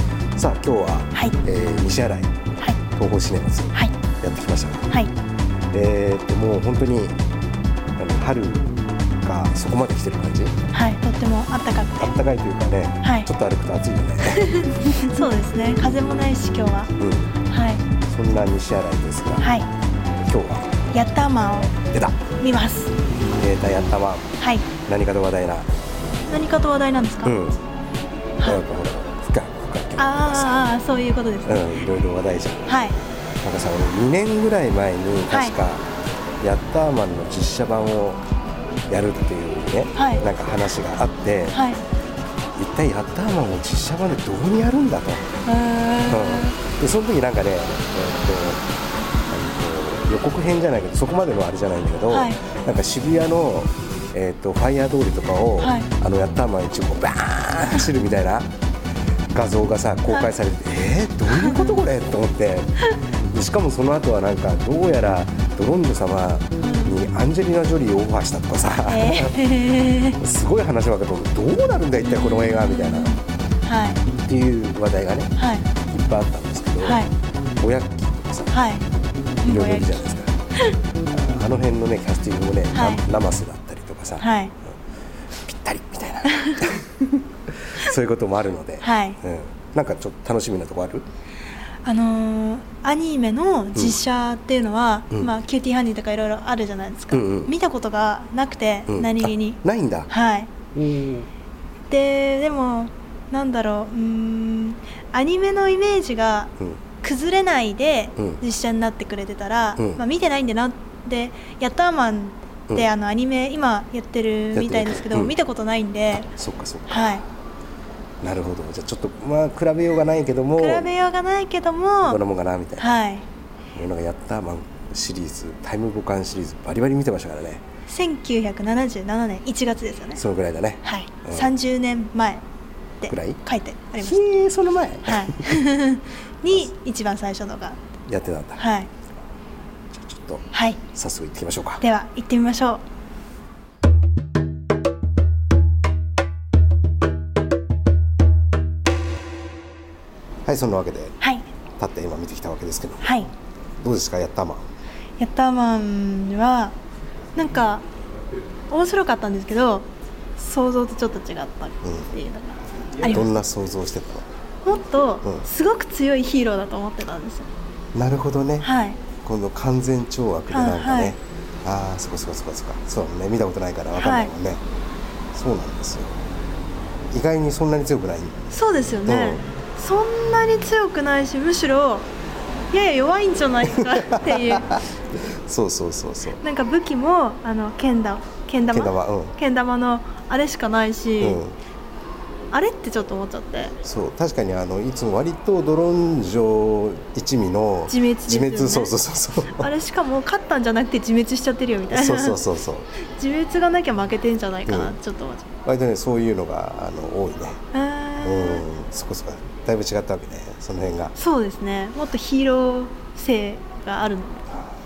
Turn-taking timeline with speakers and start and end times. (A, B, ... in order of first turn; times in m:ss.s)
0:00.4-0:02.4 A
0:03.0-0:04.9 A
0:05.7-0:07.2 A
0:08.0-0:08.7 A
0:09.2-0:10.6 A
0:10.7-0:12.2 B
0:12.0-0:15.0 A
0:13.0-0:13.3 B
0:14.2-0:16.9 B
0:17.0-0:17.3 A
0:17.5-0:17.8 B
0:18.1-0:19.5 A
0:19.4-0:19.7 B
0:20.2-0:20.8 A
0:20.9-0:23.0 B
0:21.9-0:22.2 A
0:23.3-0:24.3 A
0:24.4-0:24.7 B
0:24.8-0:25.7 A
0:26.3-0:27.4 B
0:27.2-0:27.6 A
0:28.4-0:30.7 A
0:30.0-0:31.8 B
0:31.5-0:32.7 A
0:32.7-0:33.0 B
0:33.4-0:35.8 A
0:35.3-0:35.6 B
0:36.4-0:38.2 A
0:38.9-0:41.6 A
0:40.0-0:40.2 B
0:41.5-0:41.8 B
0:42.6-0:45.3 A
0:45.4-0:46.6 B
0:46.1-0:48.6 A
0:49.3-0:58.5 A
0:52.1-0:52.4 B
0:55.6-0:55.9 B
0:59.3-1:02.8 A
1:01.3-1:01.7 B
1:03.3-1:13.1 A
1:06.6-1:06.9 B
1:08.9-1:10.2 B
1:12.1-1:14.0 B
1:14.1-1:15.3 A
1:15.4-1:15.7 B
1:15.9-1:17.0 A
1:16.8-1:17.1 B
1:17.6-1:18.6 A
1:18.5-1:18.9 B
1:19.4-1:20.8 B
1:19.4-1:20.4 A
1:21.1-1:24.2 A
1:22.7-1:23.0 B
1:24.2-1:24.5 B
1:25.4-1:31.0 A
1:26.2-1:26.7 B
1:28.8-1:29.2 B
1:31.8-1:40.5 B
1:37.1-1:37.5 A
1:38.9-1:40.1 A
1:40.8-1:41.3 A
1:41.9-1:56.3 B
1:48.2-1:48.4 A
1:49.8-1:50.0 A
1:54.5-1:55.4 A
1:56.3-1:57.2 A
1:56.9-1:57.2 B
1:58.2-2:00.9 A
2:00.6-2:02.2 B
2:02.0-2:03.0 A
2:02.8-2:03.3 B
2:03.7-2:07.6 A
2:07.9-2:10.2 B
2:10.2-2:11.5 A
2:10.8-2:12.4 B
2:13.0-2:14.3 B
2:13.1-2:13.4 A
2:14.0-2:15.5 A
2:15.0-2:17.8 B
2:18.1-2:18.6 A
2:18.6-2:18.9 B
2:19.9-2:21.8 A
2:20.5-2:20.8 B
2:21.8-2:22.8 B
2:30.4-2:31.2 A
2:31.2-2:31.5 B
2:31.8-2:33.2 A
2:33.0-2:33.3 B
2:33.8-2:34.7 A
2:35.2-2:36.8 B
2:37.4-2:37.9 B
2:38.7-2:43.3 B
2:41.8-2:42.1 A
2:43.0-2:44.3 A
2:44.6-2:47.5 B
2:47.9-2:48.7 A
2:48.6-2:49.0 B
2:49.2-2:54.6 A
2:50.5-2:51.2 B
2:53.9-2:54.3 B
2:55.3-2:56.2 A
2:57.1-2:58.4 A
2:58.5-3:02.1 B
2:59.1-2:59.4 A
3:02.7-3:04.7 B
3:03.7-3:04.8 A
3:05.4-3:06.4 A
3:06.4-3:11.4 B
3:08.7-3:09.3 A
3:11.2-3:11.6 A
3:12.5-3:13.8 B
3:13.8-3:19.8 A
3:17.9-3:18.9 B
3:19.5-3:22.4 B
3:21.9-3:22.9 A
3:23.0-3:25.4 B
3:24.7-3:25.0 A
3:25.6-3:27.6 A
3:27.7-3:28.6 B
3:28.2-3:31.1 A
3:31.2-3:34.5 B